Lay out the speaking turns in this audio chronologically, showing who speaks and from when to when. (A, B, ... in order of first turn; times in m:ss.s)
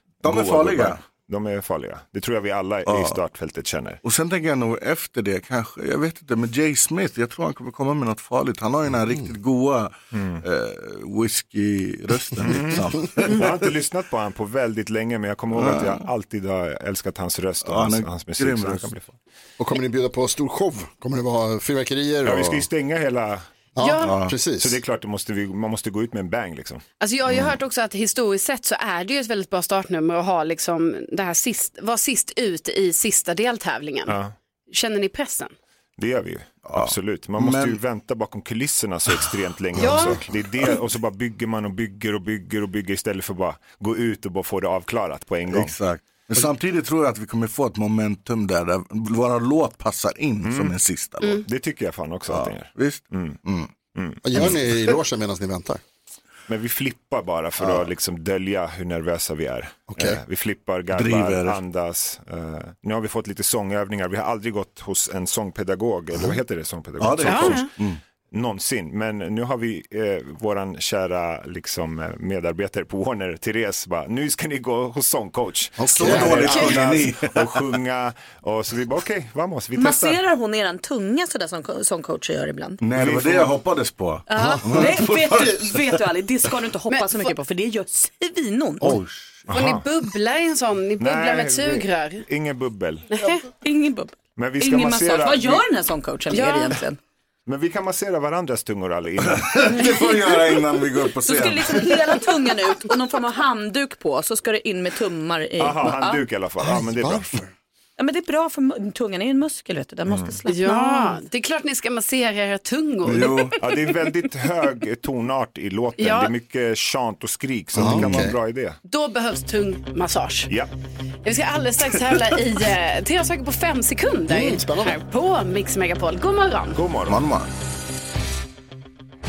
0:00.2-0:01.0 A
0:00.2-0:04.0 B
0:02.9-0:03.2 A
0:04.0-0:13.7 A
0:10.1-0:10.4 B
0:12.5-0:12.8 B
0:13.3-0:19.2 B
0:15.5-0:16.1 A
0:17.6-0:18.9 A
0:19.6-0:22.7 C
0:22.2-0:23.5 B
0:23.8-0:24.8 C
0:23.8-0:24.2 D
0:24.0-0:24.4 A
0:24.5-0:26.8 B
0:27.0-0:34.2 D
0:34.1-0:34.3 B
0:34.7-0:35.5 D
0:36.0-0:45.8 B
0:36.6-0:37.8 A
0:39.8-0:40.8 D
0:45.5-0:51.4 A
0:50.4-0:50.8 B
0:51.4-0:53.4 B
0:52.3-0:53.8 A
0:53.9-0:54.2 B
0:54.2-0:55.8 C
0:56.5-1:07.6 B
0:59.9-1:00.2 C
1:00.9-1:01.6 A
1:07.0-1:08.0 A
1:07.3-1:07.7 D
1:08.3-1:20.2 B
1:15.8-1:16.6 C
1:15.9-1:17.6 A
1:19.8-1:22.8 E
1:22.8-1:25.8 A
1:22.9-1:23.5 B
1:24.3-1:29.0 E
1:26.9-1:27.3 D
1:28.8-1:29.5 A
1:29.5-1:29.8 B
1:29.5-1:32.2 D
1:31.0-1:33.1 B
1:33.1-1:33.4 D
1:33.6-1:37.0 E
1:34.4-1:35.6 B
1:36.3-1:36.8 D
1:37.5-1:39.6 B
1:39.2-1:42.0 A
1:41.3-1:46.2 E
1:45.6-1:47.3 B
1:46.6-1:47.5 C
1:48.0-1:51.2 E
1:50.1-1:50.4 B
1:50.5-1:53.5 D
1:53.0-1:53.6 A
1:53.6-1:58.8 B
1:56.0-1:56.3 D
1:57.7-1:58.4 C
1:58.9-2:00.5 D
2:01.2-2:06.8 D
2:04.3-2:05.0 C
2:06.8-2:07.2 B
2:07.1-2:07.5 A